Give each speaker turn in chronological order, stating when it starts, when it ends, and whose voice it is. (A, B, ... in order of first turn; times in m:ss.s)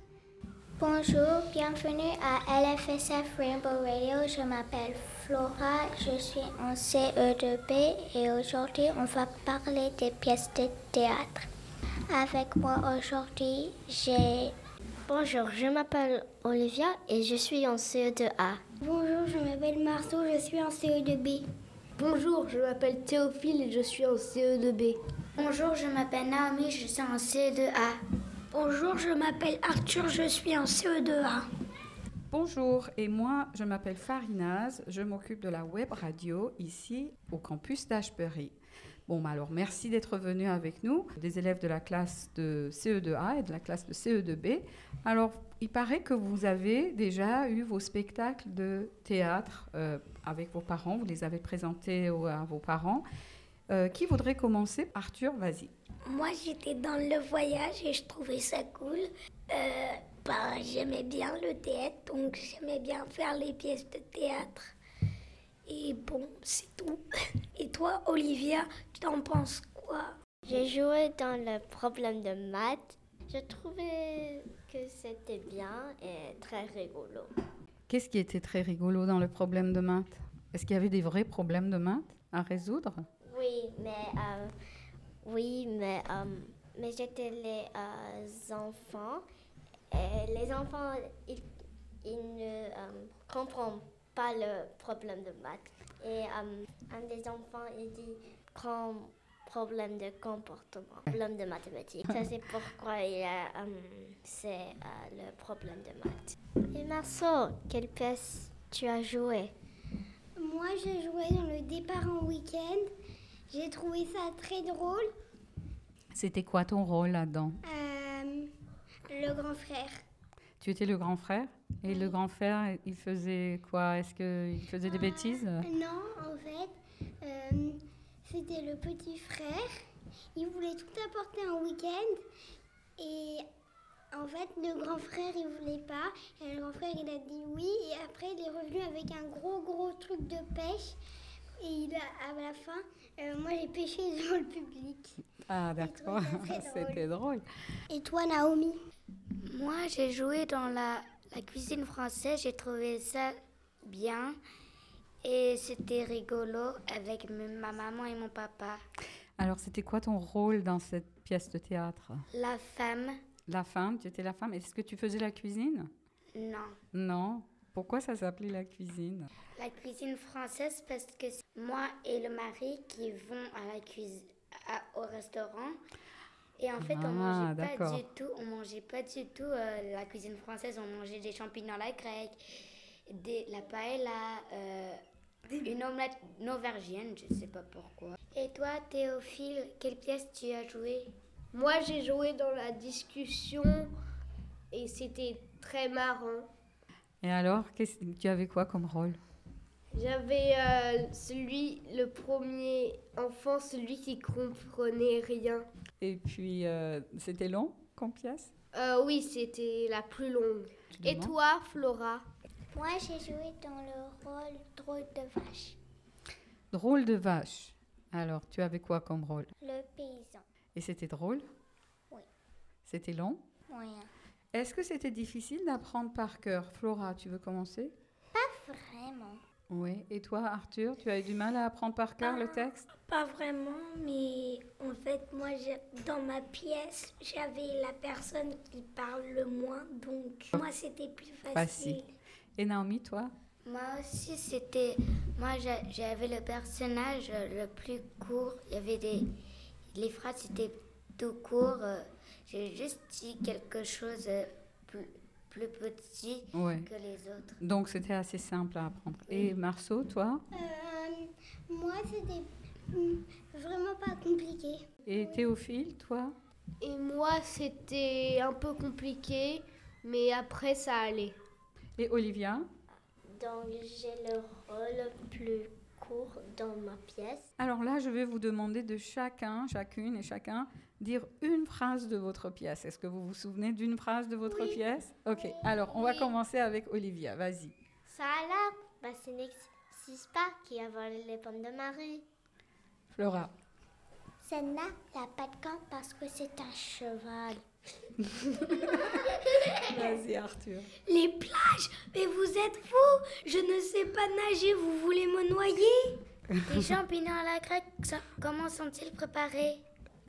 0:00.8-0:11.4 A
0:12.1-0:14.5 A
0:15.1-0:18.6 B
0:18.8-0:21.4 C
0:22.0-0:25.0 D
0:25.4-0:28.0 E
0:28.5-0:31.4 F
0:32.3-0:38.5 G
0:39.1-0:53.0 G
0:53.7-0:55.7 G
0:56.0-1:04.7 F
1:05.6-1:07.0 F
1:07.6-1:10.1 F
1:10.4-1:17.3 B
1:17.9-1:23.1 G
1:23.2-1:24.5 B
1:25.2-1:29.2 B
1:29.9-1:31.5 B
1:32.0-1:49.5 B
1:50.4-1:52.9 C
1:53.5-1:55.1 C
1:56.1-1:57.6 G
1:57.6-1:58.5 C
1:59.1-2:00.0 C
2:00.6-2:05.7 G
2:01.9-2:02.1 C
2:04.8-2:09.7 C
2:10.3-2:12.2 C
2:13.0-2:13.4 C
2:14.1-2:21.0 C
2:21.6-2:25.2 C
2:25.5-2:27.4 G
2:25.8-2:27.1 C
2:27.9-2:28.8 C
2:29.4-2:34.4 E
2:35.2-2:38.8 E
2:39.4-2:42.2 G
2:42.3-2:43.2 E
2:43.5-2:45.9 G
2:46.3-2:46.8 E
2:46.9-2:49.3 G
2:49.6-2:55.8 E
2:56.6-3:02.4 E
2:56.8-2:58.0 G
3:03.1-3:05.0 E
3:05.6-3:11.1 E
3:11.5-3:13.9 D
3:14.7-3:16.4 D
3:17.2-3:19.2 G
3:19.9-3:25.6 D
3:26.0-3:28.5 G
3:28.7-3:32.2 D
3:30.9-3:31.3 G
3:32.7-3:35.8 A
3:36.7-3:39.5 G
3:39.6-3:40.4 A
3:40.7-3:41.5 G
3:42.8-3:43.4 G
3:43.7-3:44.1 A
3:44.5-3:47.9 G
3:48.3-3:49.4 A
3:49.7-3:52.9 G
3:52.2-4:02.1 F
4:01.5-4:02.0 G
4:02.6-4:03.3 G
4:03.6-4:09.2 E
4:09.9-4:17.6 E
4:16.5-4:16.9 G
4:17.6-4:20.4 G
4:20.5-4:25.4 C
4:25.0-4:26.3 G
4:26.8-4:31.3 D
4:32.0-4:32.7 G
4:33.3-4:37.4 B
4:37.6-4:47.7 G
4:48.1-4:52.2 B
4:53.1-4:53.5 G
4:54.4-4:57.6 A
4:58.4-5:00.9 G
5:01.1-5:06.2 F
5:06.6-5:09.8 E